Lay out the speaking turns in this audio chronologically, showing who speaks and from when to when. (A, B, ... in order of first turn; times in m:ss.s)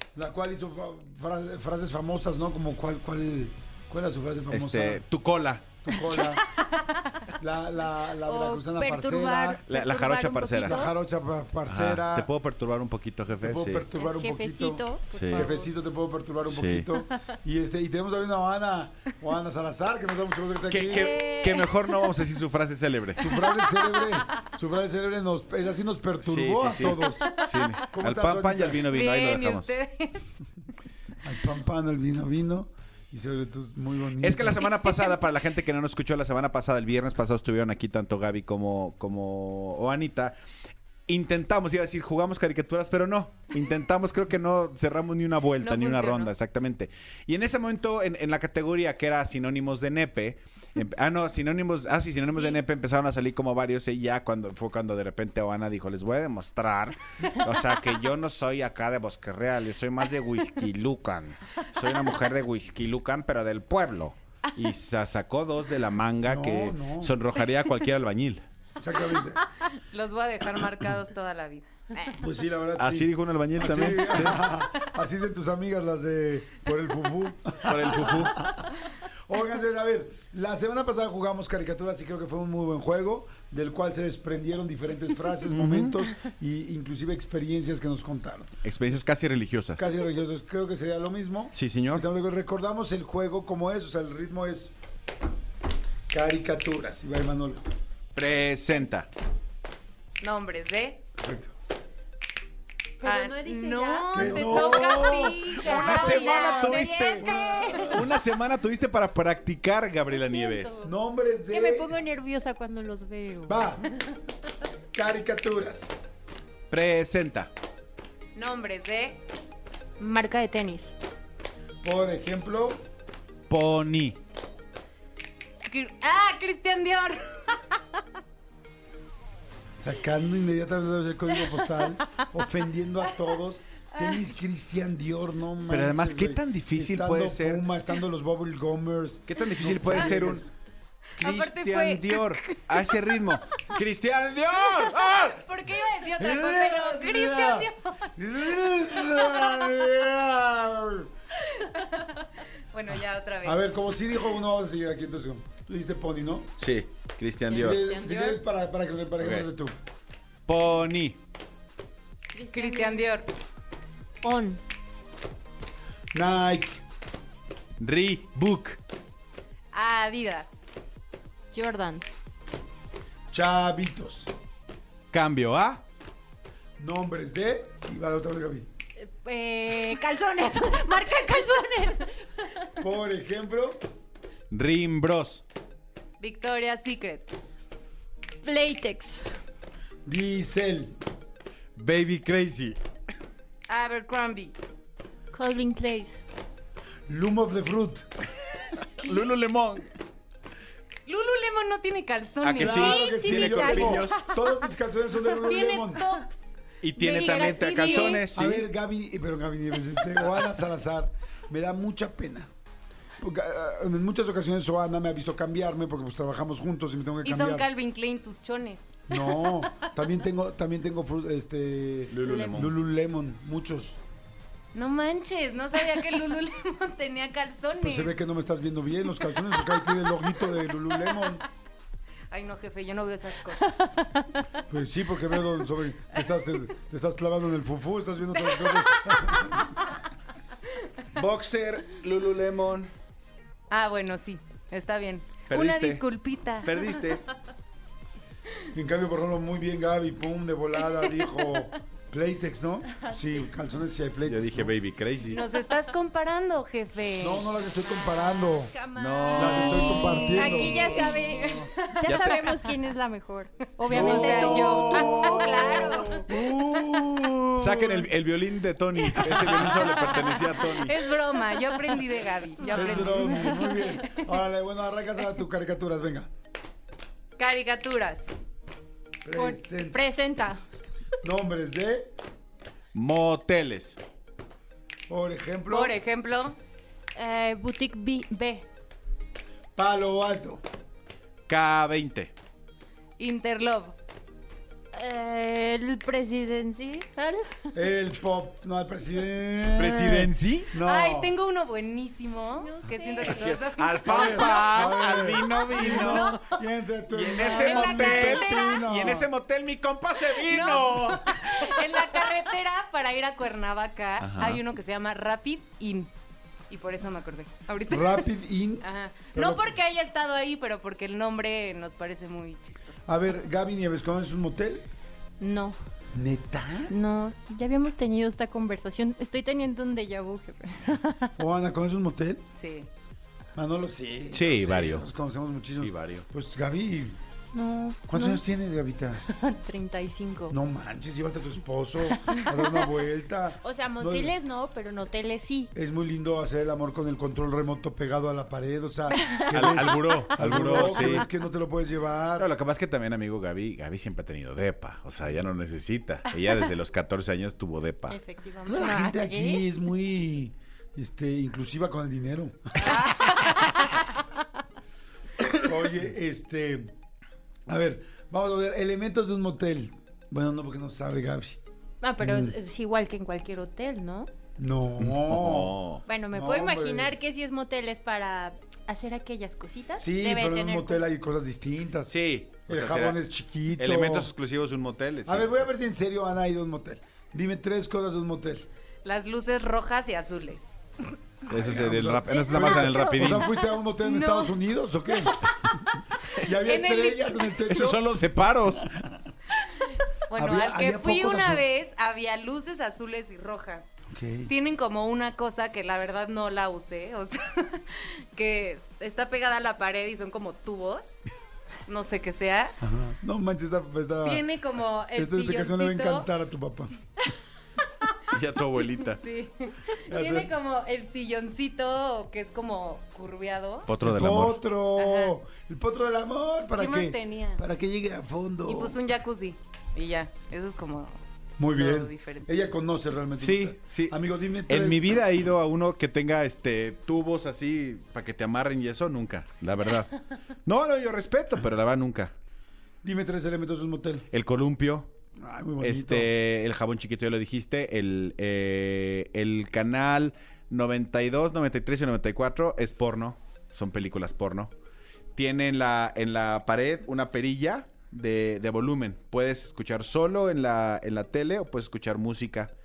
0:00.1-0:05.0 A
0:04.5-0:05.8 B
0:05.8-0:06.4 A
0:07.4-0:09.6 A
0:08.2-0:10.9 C
0:09.7-0:10.8 B
0:10.6-0:12.3 A
0:11.7-0:13.9 B
0:13.4-0:21.1 A
0:14.0-0:15.7 C
0:15.1-0:15.5 B
0:16.4-0:16.9 B
0:20.7-0:23.2 B
0:20.9-0:22.2 C
0:23.2-0:27.3 A
0:23.2-0:24.3 D
0:26.2-0:29.7 B
0:26.9-0:27.8 D
0:27.9-0:28.8 A
0:28.9-0:30.3 D
0:31.2-0:34.6 A
0:34.2-0:40.4 B
0:34.7-0:35.1 D
0:41.1-1:08.4 B
0:45.6-0:46.3 D
0:52.2-0:52.6 D
1:06.2-1:07.2 A
1:08.8-1:09.4 A
1:09.1-1:11.7 D
1:11.9-1:12.2 C
1:12.2-1:18.7 A
1:12.8-1:14.5 B
1:17.7-1:18.4 B
1:19.3-1:28.6 A
1:25.5-1:26.0 B
1:28.6-1:29.9 B
1:29.8-1:34.7 A
1:31.5-1:32.0 B
1:36.1-1:37.6 A
1:38.1-1:39.1 B
1:40.2-1:41.0 D
1:41.2-1:41.5 A
1:43.0-1:48.1 C
1:43.0-1:46.9 D
1:44.1-1:45.9 A
1:45.6-1:47.3 B
1:47.2-1:48.1 A
1:47.8-1:50.8 B
1:50.1-1:50.9 C
1:50.8-1:52.0 A
1:51.5-1:53.8 C
1:53.5-1:53.8 A
1:54.9-1:55.9 A
1:56.7-1:57.5 B
1:58.3-1:59.2 D
2:00.0-2:00.9 C
2:01.8-2:02.8 A
2:03.5-2:04.2 B
2:05.6-2:07.7 D
2:09.8-2:20.5 A
2:11.6-2:11.9 D
2:15.7-2:17.6 B
2:19.3-2:20.4 B
2:21.2-2:23.3 D
2:21.2-2:25.4 B
2:24.7-2:28.1 D
2:26.2-2:31.1 A
2:31.5-2:32.1 D
2:32.7-2:33.6 D
2:33.4-2:36.5 A
2:36.6-2:37.8 B
2:37.5-2:38.4 C
2:37.5-2:39.8 A
2:39.2-2:39.5 B
2:40.5-2:41.2 B
2:42.3-2:43.1 C
2:42.5-2:43.3 D
2:44.2-2:44.6 C
2:46.1-2:46.8 A
2:47.8-2:48.8 B
2:49.7-2:50.5 D
2:51.5-2:52.1 C
2:53.3-2:54.3 A
2:55.1-2:55.8 B
2:56.8-2:58.7 A
2:59.0-3:02.2 C
3:02.8-3:03.8 A
3:04.5-3:05.4 B
3:06.2-3:07.3 D
3:08.4-3:09.2 C
3:10.0-3:10.9 A
3:11.8-3:12.8 B
3:13.7-3:14.5 D
3:15.3-3:16.2 C
3:17.1-3:18.6 A
3:19.0-3:19.9 B
3:21.1-3:22.9 D
3:22.4-3:24.3 B
3:22.6-3:26.0 A
3:22.7-3:24.1 C
3:25.4-3:26.3 D
3:26.8-3:28.7 B
3:27.0-3:28.3 D
3:27.0-3:28.2 C
3:28.3-3:32.5 A
3:30.2-3:30.6 B
3:33.2-3:37.7 A
3:37.2-3:38.8 D
3:39.1-3:44.0 A
3:42.1-3:42.7 B
3:42.2-3:42.7 C
3:44.7-3:48.2 D
3:47.8-3:51.4 A
3:52.3-3:53.8 D
3:54.7-3:59.9 A
4:01.1-4:02.9 B
4:03.7-4:07.0 D
4:05.5-4:06.0 B
4:06.6-4:07.2 B
4:08.7-4:14.7 A
4:14.2-4:15.4 B
4:15.3-4:17.5 D
4:17.2-4:18.7 A
4:18.0-4:26.2 C
4:19.0-4:20.3 B
4:19.3-4:21.2 A
4:19.7-4:22.6 D
4:22.0-4:22.4 B
4:23.8-4:26.2 D
4:23.9-4:28.1 A
4:26.3-4:30.9 B
4:29.1-4:30.4 C
4:29.3-4:29.9 A
4:29.5-4:33.6 D
4:32.6-4:34.2 C
4:32.7-4:36.3 A
4:37.4-4:38.3 D
4:39.2-4:40.0 A
4:39.3-4:40.6 C
4:41.2-4:42.1 A
4:42.9-4:44.0 B
4:45.1-4:46.0 A
4:45.7-4:46.6 D
4:47.1-4:48.7 C
4:49.8-4:50.6 A
4:51.5-4:52.3 B
4:53.2-4:54.0 D
4:54.9-4:57.7 C
4:57.7-5:01.3 A
4:59.8-5:00.7 B
5:00.8-5:04.6 D
5:02.5-5:06.4 C
5:03.2-5:06.5 B
5:04.0-5:09.3 A
5:07.1-5:11.5 B
5:07.5-5:08.8 D
5:07.5-5:08.3 C
5:10.2-5:16.1 D
5:14.2-5:14.6 B
5:16.7-5:18.3 D
5:17.9-5:19.8 A
5:18.8-5:23.1 D
5:23.1-5:24.9 A
5:25.4-5:25.8 C
5:26.1-5:26.9 A
5:26.9-5:31.3 C
5:31.4-5:32.4 A
5:32.6-5:32.9 D
5:33.6-5:37.2 A
5:34.3-5:35.1 B
5:35.8-5:36.3 B
5:37.5-5:38.4 C
5:38.1-5:39.2 A
5:39.3-5:40.6 C
5:40.5-5:44.4 A
5:42.2-5:42.5 C
5:43.6-5:45.7 C
5:45.7-5:52.5 A
5:49.3-5:49.6 C
5:49.5-5:51.3 B
5:52.4-5:58.2 B
5:58.1-5:59.7 C
5:58.7-6:03.1 A
6:02.9-6:03.9 C
6:05.5-6:06.9 A
6:07.7-6:11.6 A
6:12.0-6:14.3 C
6:12.2-6:12.6 A
6:14.6-6:15.8 A
6:15.0-6:16.0 B
6:16.1-6:21.0 C
6:16.3-6:17.1 A
6:20.0-6:22.1 A
6:22.1-6:23.2 B
6:22.7-6:24.3 A
6:23.8-6:25.7 B
6:25.3-6:28.7 A
6:29.0-6:30.7 D
6:31.5-6:33.5 B
6:31.5-6:35.4 A
6:32.3-6:34.6 D
6:35.2-6:35.7 D
6:36.3-6:38.1 A
6:36.6-6:37.6 D
6:37.7-6:38.9 B
6:38.8-6:39.2 A
6:39.9-6:43.9 D
6:40.4-6:41.6 A
6:44.1-6:44.5 A
6:44.5-6:51.1 D
6:51.9-6:52.8 D
6:52.8-6:54.4 A
6:54.2-6:56.3 D
6:55.1-6:56.9 A
6:58.3-6:59.2 B
6:59.0-7:03.9 D
7:00.1-7:00.5 A
7:03.9-7:04.6 B
7:04.0-7:09.0 A
7:05.0-7:05.4 D
7:06.8-7:07.6 D
7:08.7-7:11.2 D
7:11.6-7:15.3 A
7:11.7-7:12.6 D
7:13.4-7:14.2 B
7:14.7-7:22.3 B
7:23.0-7:24.3 A
7:24.3-7:25.1 B
7:25.4-7:26.3 A
7:25.8-7:34.7 B
7:35.4-7:42.7 B